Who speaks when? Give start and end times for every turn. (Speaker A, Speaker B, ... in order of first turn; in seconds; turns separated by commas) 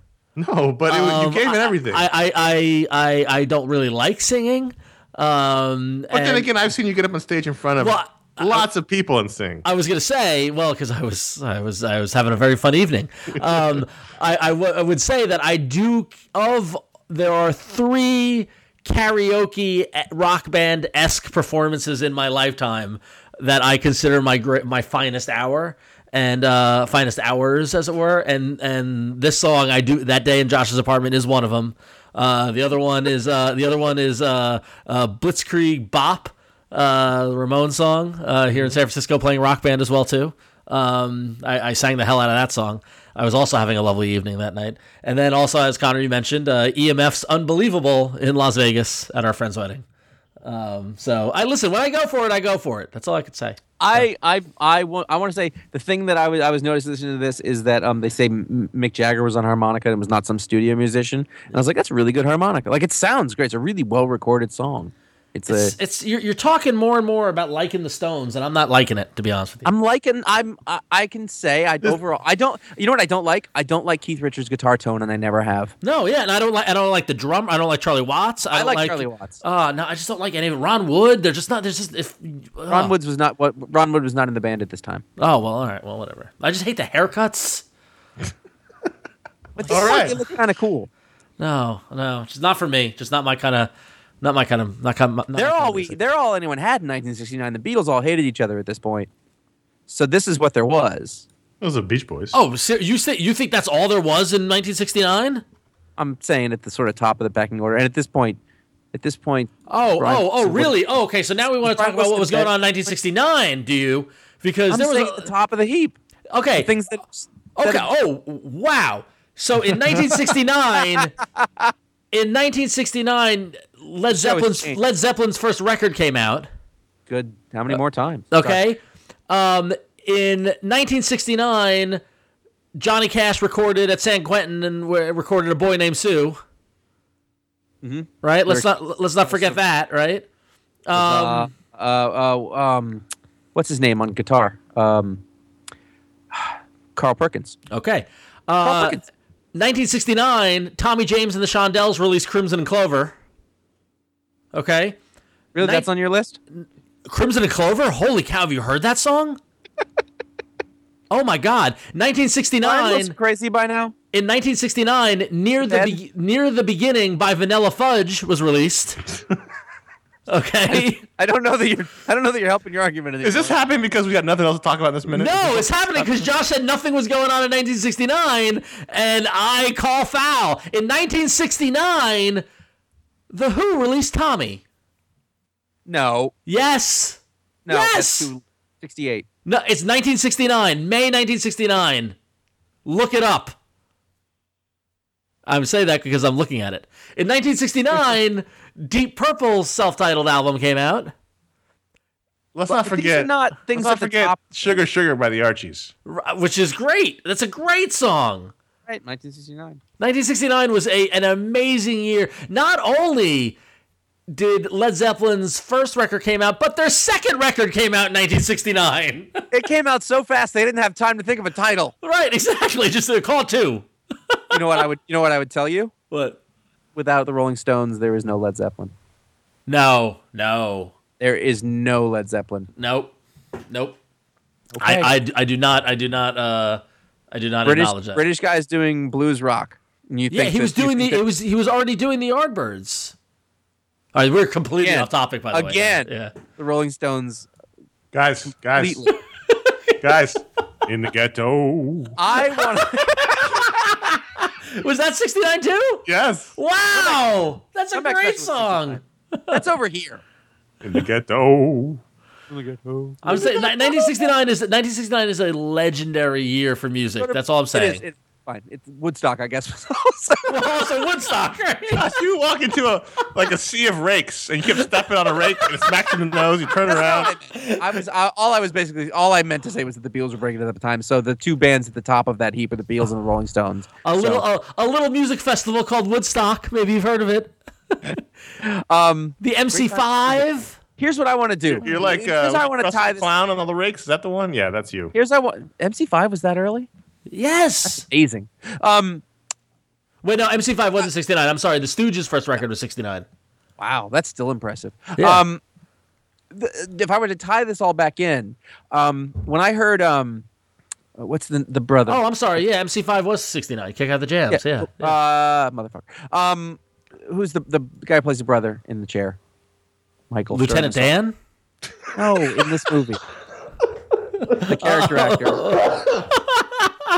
Speaker A: 0.4-2.1, Speaker B: 0.9-6.5, Speaker A: 6.1-9.7, Speaker B: 7.8-8.7, Speaker B: 9.7-49.9, Speaker B: 50.4-54.1, Speaker C: 53.8-65.7, Speaker B: 65.5-69.7, Speaker C: 69.7-75.7, Speaker B: 75.8-82.9, Speaker C: 78.5-79.4, Speaker C: 82.7-85.0, Speaker B: 85.2-87.7, Speaker C: 89.6-90.9, Speaker B: 89.7-90.0, Speaker A: 89.7-90.2, Speaker B: 91.4-93.7, Speaker B: 94.2-96.0, Speaker C: 95.3-99.1, Speaker C: 99.9-101.2, Speaker A: 101.6-102.4, Speaker B: 102.3-105.4, Speaker C: 106.0-108.4, Speaker C: 108.9-110.7, Speaker B: 109.7-115.3, Speaker C: 111.6-112.5, Speaker C: 114.7-116.0, Speaker B: 116.3-116.7, Speaker C: 116.6-117.8, Speaker B: 117.5-121.2, Speaker C: 120.9-121.7, Speaker B: 122.1-126.5, Speaker C: 124.1-124.8, Speaker C: 127.1-128.6, Speaker B: 128.3-132.0, Speaker B: 132.8-136.4, Speaker C: 137.8-138.7, Speaker B: 138.2-140.2, Speaker C: 139.3-139.6, Speaker B: 140.9-141.5, Speaker C: 140.9-143.0, Speaker C: 143.6-145.2, Speaker C: 146.3-147.6, Speaker B: 147.7-149.0, Speaker C: 148.6-149.0, Speaker B: 149.5-153.1, Speaker B: 154.5-155.0, Speaker C: 155.6-156.4, Speaker B: 155.6-155.9, Speaker B: 156.6-159.4, Speaker B: 161.1-163.2, Speaker C: 162.6-163.9, Speaker B: 164.1-169.1, Speaker C: 165.6-166.0, Speaker B: 170.3-171.0, Speaker C: 170.7-173.6, Speaker A: 173.2-176.1, Speaker B: 175.1-182.4, Speaker B: 183.3-184.6, Speaker C: 185.9-186.3, Speaker B: 186.5-188.3, Speaker C: 187.7-189.3, Speaker B: 189.5-192.2, Speaker B: 192.8-193.6, Speaker B: 195.5-201.1, Speaker A: 202.6-205.9, Speaker C: 202.7-204.8, Speaker B: 206.1-208.5, Speaker C: 208.9-209.8, Speaker B: 210.0-213.6, Speaker B: 214.3-219.5, Speaker C: 219.5-221.9, Speaker B: 222.0-224.8, Speaker C: 224.5-225.9, Speaker B: 226.1-226.4, Speaker C: 226.9-228.9, Speaker B: 229.7-230.9, Speaker C: 231.2-232.7, Speaker B: 232.8-233.1, Speaker B: 233.7-234.0, Speaker C: 234.8-235.1, Speaker B: 234.8-238.2, Speaker C: 237.7-241.2, Speaker B: 240.3-243.2, Speaker B: 244.1-246.3, Speaker C: 244.8-247.5, Speaker A: 248.1-249.1, Speaker C: 248.8-249.1, Speaker B: 249.5-250.0, Speaker A: 250.0-252.2, Speaker C: 252.2-253.8, Speaker B: 252.5-259.6, Speaker A: 256.1-256.5, Speaker C: 256.9-257.2, Speaker C: 257.9-260.2, Speaker A: 260.8-262.0, Speaker C: 262.5-264.0, Speaker B: 263.2-268.0, Speaker C: 267.2-270.8, Speaker B: 270.5-272.1, Speaker A: 271.9-277.3, Speaker C: 276.8-284.4, Speaker B: 277.6-278.0, Speaker B: 284.0-288.2, Speaker C: 288.1-293.3, Speaker B: 289.4-290.8, Speaker A: 291.7-295.1, Speaker C: 295.1-296.9, Speaker B: 297.3-298.1, Speaker C: 297.9-299.2, Speaker B: 300.2-303.2, Speaker C: 303.8-305.6, Speaker B: 305.2-305.4, Speaker C: 306.5-310.4, Speaker C: 311.2-312.2, Speaker B: 312.1-315.2, Speaker C: 314.5-319.4, Speaker C: 320.3-321.1, Speaker B: 320.5-321.4, Speaker C: 322.1-323.2, Speaker B: 324.4-326.9, Speaker C: 324.5-325.7